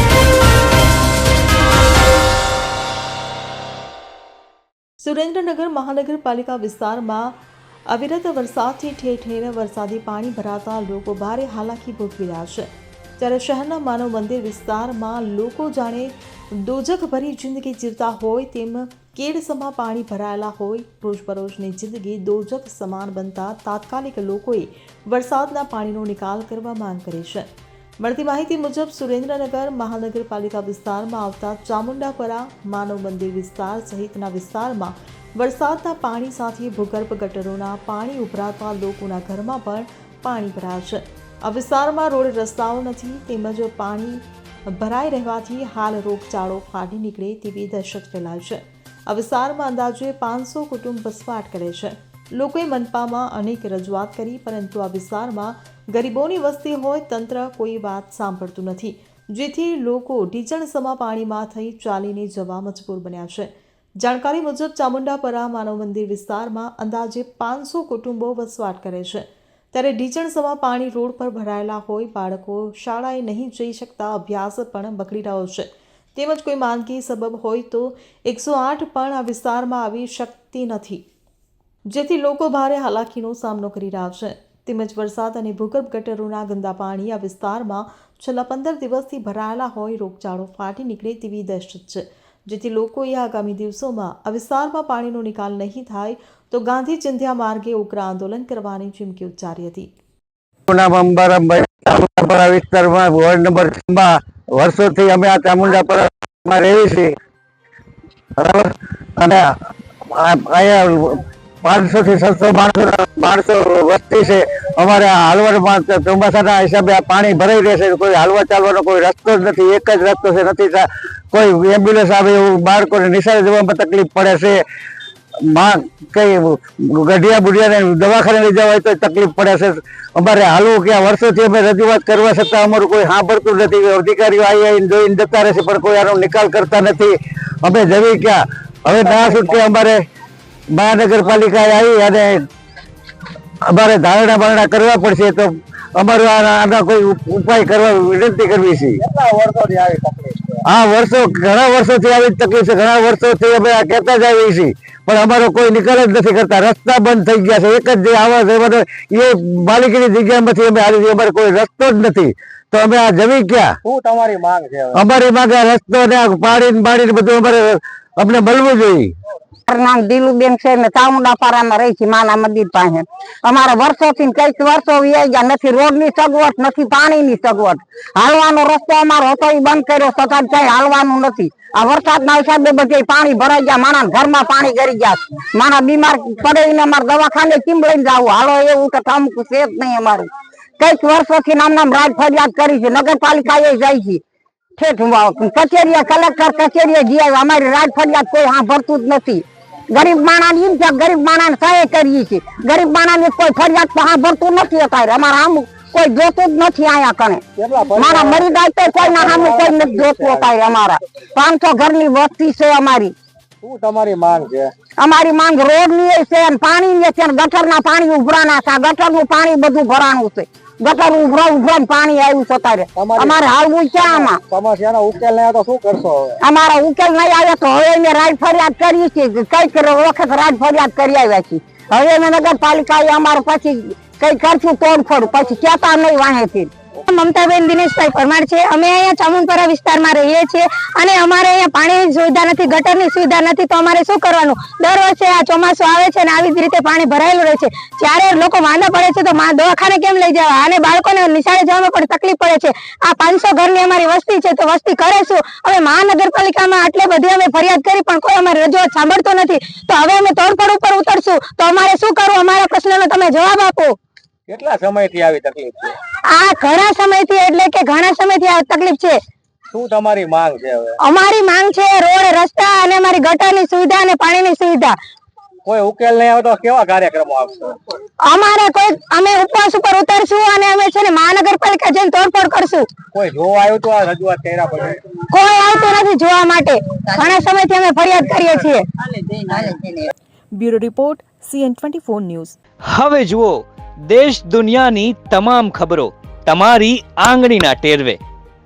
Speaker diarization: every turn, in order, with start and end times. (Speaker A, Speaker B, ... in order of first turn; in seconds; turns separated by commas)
Speaker A: 5.0-7.4, Speaker A: 7.9-27.5, Speaker A: 28.0-81.0, Speaker A: 81.9-99.9, Speaker B: 100.7-107.1, Speaker B: 108.4-109.5, Speaker B: 110.1-124.6, Speaker B: 125.4-140.0, Speaker C: 139.0-139.6, Speaker B: 140.7-142.4, Speaker B: 143.7-149.0, Speaker C: 149.0-150.6, Speaker B: 150.7-163.7, Speaker C: 163.8-165.0, Speaker B: 164.9-169.1, Speaker D: 169.7-194.2, Speaker D: 194.8-207.4, Speaker C: 207.6-210.6, Speaker D: 207.9-213.1, Speaker C: 213.6-214.7, Speaker D: 215.0-224.4, Speaker C: 222.9-223.4, Speaker C: 224.0-226.4, Speaker D: 226.4-236.7, Speaker E: 237.1-263.9, Speaker C: 264.5-265.9, Speaker E: 266.3-269.2, Speaker C: 269.7-270.9, Speaker E: 271.0-275.0, Speaker C: 275.6-277.8, Speaker E: 278.2-282.9, Speaker C: 283.1-285.0, Speaker E: 285.2-288.8, Speaker A: 290.5-292.6, Speaker F: 292.9-298.2